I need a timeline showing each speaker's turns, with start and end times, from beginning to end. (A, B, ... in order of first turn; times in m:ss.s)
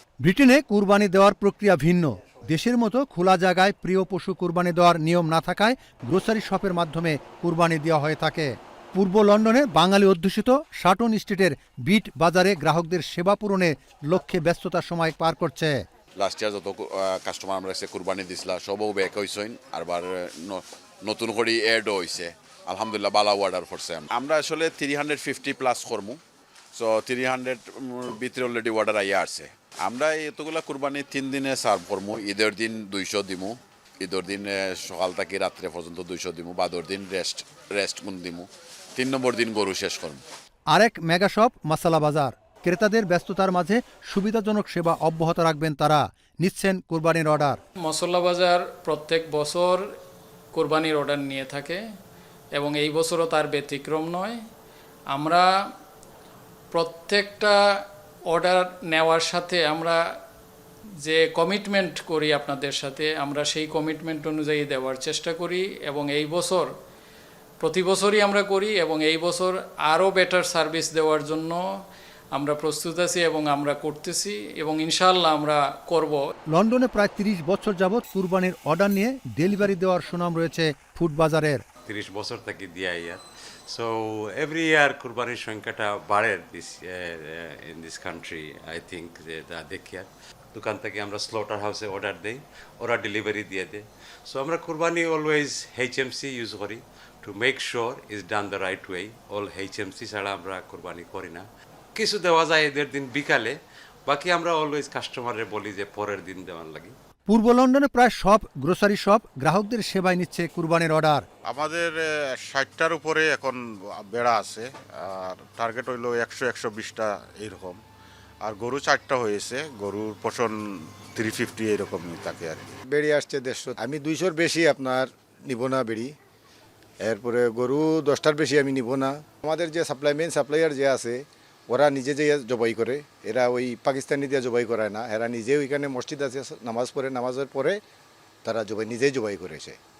0:00.2-0:15.8 A
0:16.2-0:26.2 B
0:26.7-0:40.2 B
0:40.7-0:47.6 A
0:47.8-0:49.9 C
0:50.5-0:51.8 C
0:52.5-0:54.4 C
0:55.1-0:55.5 C
0:56.7-1:00.0 C
1:01.0-1:06.7 C
1:07.6-1:11.6 C
1:12.3-1:16.2 C
1:16.5-1:21.6 A
1:21.9-1:43.6 D
1:44.1-1:46.9 D
1:47.3-1:51.3 A
1:51.5-1:57.8 E
1:58.4-2:00.6 E
2:01.2-2:02.7 E
2:02.9-2:06.1 F
2:07.0-2:17.8 F
2:18.4-2:19.8 F